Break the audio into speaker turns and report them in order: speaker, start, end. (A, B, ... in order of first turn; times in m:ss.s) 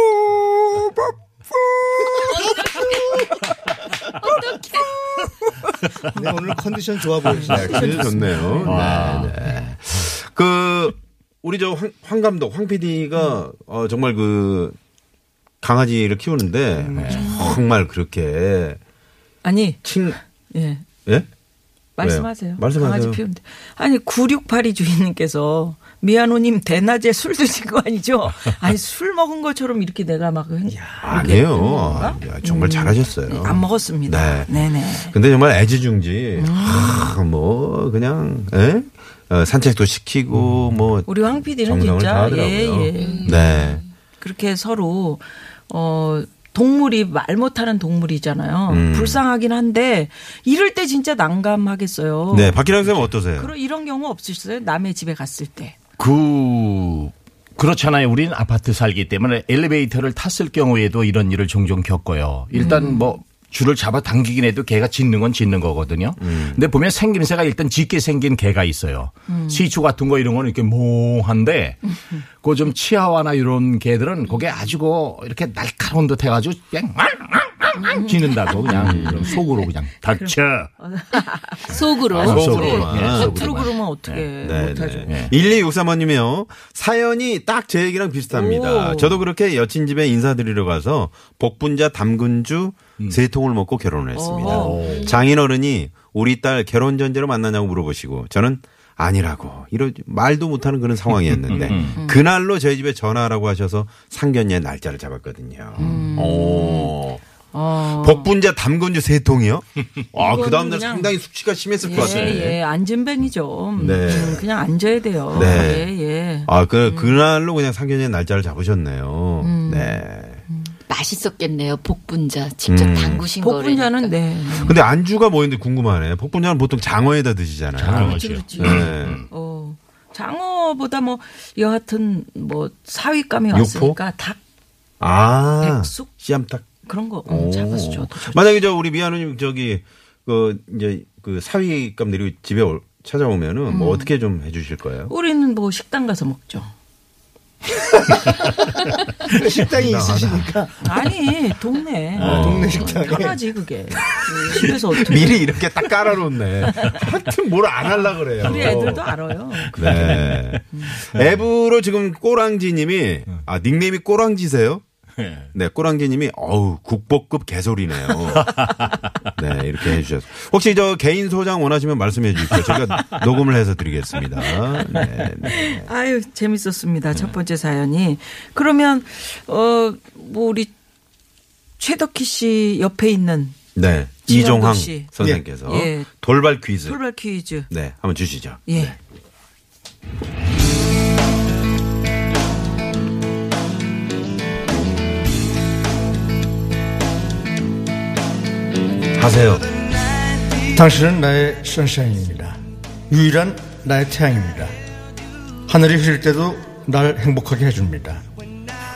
0:00.4-0:00.9 A
0:02.1-0:03.1 A
0:06.0-0:08.1 A
0:07.2-0:09.0 B
0:07.4-0:14.8 C
0:08.6-0:09.4 D
0:15.6-0:18.8 C
0:17.0-0:17.5 D
0:17.1-0:17.6 B
0:19.4-0:19.8 B
0:19.8-0:20.2 C
0:20.5-0:20.8 B
0:22.0-0:35.1 B
0:22.0-0:23.2 C
0:31.0-0:34.6 C
0:35.1-0:43.8 C
0:36.4-0:37.2 B
0:41.1-0:43.5 B
0:43.0-0:43.9 E
0:44.2-0:52.6 B
0:48.7-0:49.2 C
0:52.3-0:53.5 C
0:53.4-0:55.8 B
0:56.0-1:11.8 D
1:02.5-1:03.1 B
1:06.2-1:06.6 C
1:09.3-1:09.7 B
1:12.4-1:20.7 D
1:17.8-1:19.4 B
1:18.7-1:19.3 C
1:20.2-1:25.2 B
1:21.7-1:22.9 E
1:22.1-1:23.6 C
1:22.1-1:24.3 D
1:24.4-1:47.2 C
1:25.1-1:25.3 D
1:28.3-1:29.2 B
1:34.1-1:35.1 B
1:34.5-1:35.2 D
1:34.7-1:35.2 E
1:41.3-1:42.0 D
1:41.9-1:42.2 B
1:45.8-1:47.0 B
1:47.5-1:48.3 B
1:47.8-1:52.6 C
1:50.1-1:51.1 B
1:51.8-1:57.1 B
1:51.9-1:52.4 D
1:53.8-1:54.4 C
1:55.3-1:55.9 C
1:56.5-2:00.4 C
1:59.4-2:00.7 B
2:00.9-2:04.1 E
2:02.7-2:03.3 C
2:03.4-2:04.8 B
2:04.6-2:09.2 C
2:07.8-2:09.3 D
2:07.9-2:14.4 B
2:13.5-2:14.0 C
2:15.0-2:16.7 C
2:15.6-2:16.1 B
2:16.8-2:18.4 B
2:17.3-2:25.1 C
2:23.7-2:24.1 B
2:25.1-2:26.7 B
2:29.3-2:30.7 A
2:29.7-2:30.5 C
2:30.8-2:37.0 B
2:32.2-2:32.9 C
2:32.2-2:33.4 A
2:34.3-2:39.1 C
2:37.9-2:41.0 B
2:39.7-2:44.8 C
2:39.9-2:40.4 D
2:45.2-2:45.5 D
2:45.5-2:55.9 C
2:48.4-2:49.0 D
2:55.4-3:00.7 B
3:01.8-3:03.6 B
3:03.8-3:07.0 C
3:04.3-3:05.1 B
3:05.6-3:06.1 B
3:06.8-3:07.7 B
3:07.7-3:09.0 C
3:08.7-3:09.0 B
3:19.2-3:19.6 C
3:20.6-3:22.6 A
3:23.1-3:24.7 A
3:25.7-3:28.2 A